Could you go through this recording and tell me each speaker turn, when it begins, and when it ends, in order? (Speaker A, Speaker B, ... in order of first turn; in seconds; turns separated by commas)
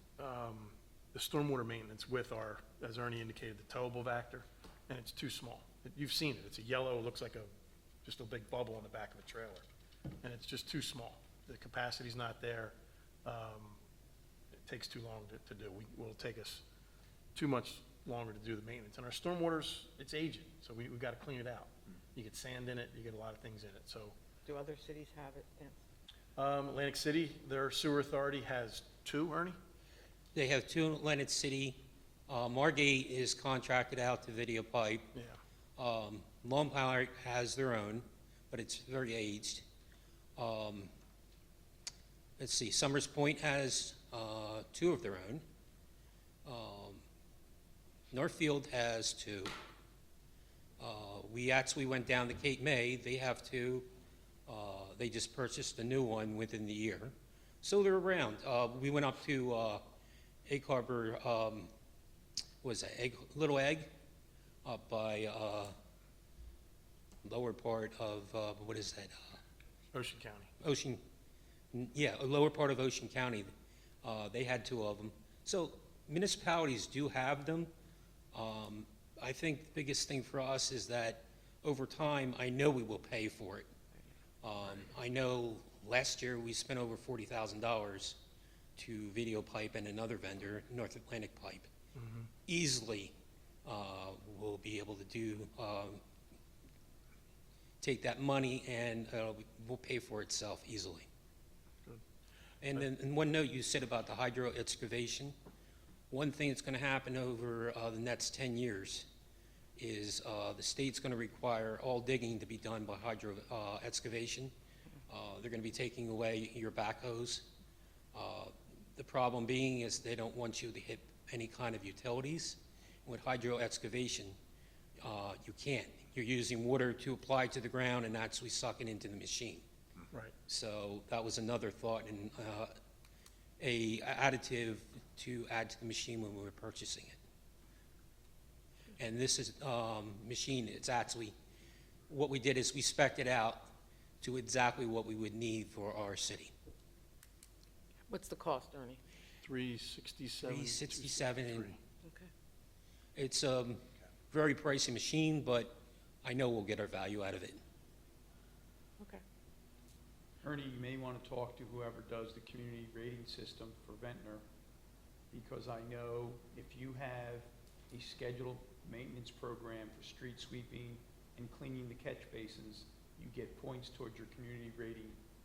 Speaker A: 0.2-7.5, Speaker A: 8.0-9.7, Speaker A: 10.2-13.8, Speaker A: 14.7-16.6, Speaker A: 17.4-24.2, Speaker B: 24.4-25.8, Speaker A: 26.4-29.6, Speaker C: 30.4-35.1, Speaker A: 35.1-35.4, Speaker C: 35.8-39.6, Speaker C: 40.4-40.9, Speaker C: 42.4-45.4, Speaker C: 46.5-47.0, Speaker C: 48.1-49.5, Speaker C: 50.8-53.9, Speaker C: 54.5-59.8, Speaker C: 60.5-61.7, Speaker C: 62.6-63.9, Speaker C: 64.7-65.7, Speaker C: 67.2-69.4, Speaker A: 69.9-70.5, Speaker C: 70.6-71.0, Speaker C: 71.7-73.5, Speaker C: 74.0-77.7, Speaker C: 78.3-83.7, Speaker C: 84.4-88.2, Speaker C: 88.8-91.7, Speaker A: 92.0-92.3, Speaker C: 92.5-93.1, Speaker C: 93.7-96.0, Speaker C: 97.8-101.1, Speaker C: 102.6-105.3, Speaker C: 106.1-109.1, Speaker C: 109.8-114.5, Speaker C: 115.1-117.5, Speaker C: 118.1-124.4, Speaker C: 125.0-129.6, Speaker C: 130.5-132.7, Speaker C: 133.6-137.2, Speaker C: 139.0-141.3, Speaker C: 142.1-143.7, Speaker C: 144.2-146.5, Speaker B: 148.1-149.0, Speaker A: 149.4-151.8, Speaker C: 150.4-151.7, Speaker C: 153.2-157.6, Speaker D: 160.4-164.4, Speaker D: 165.3-175.2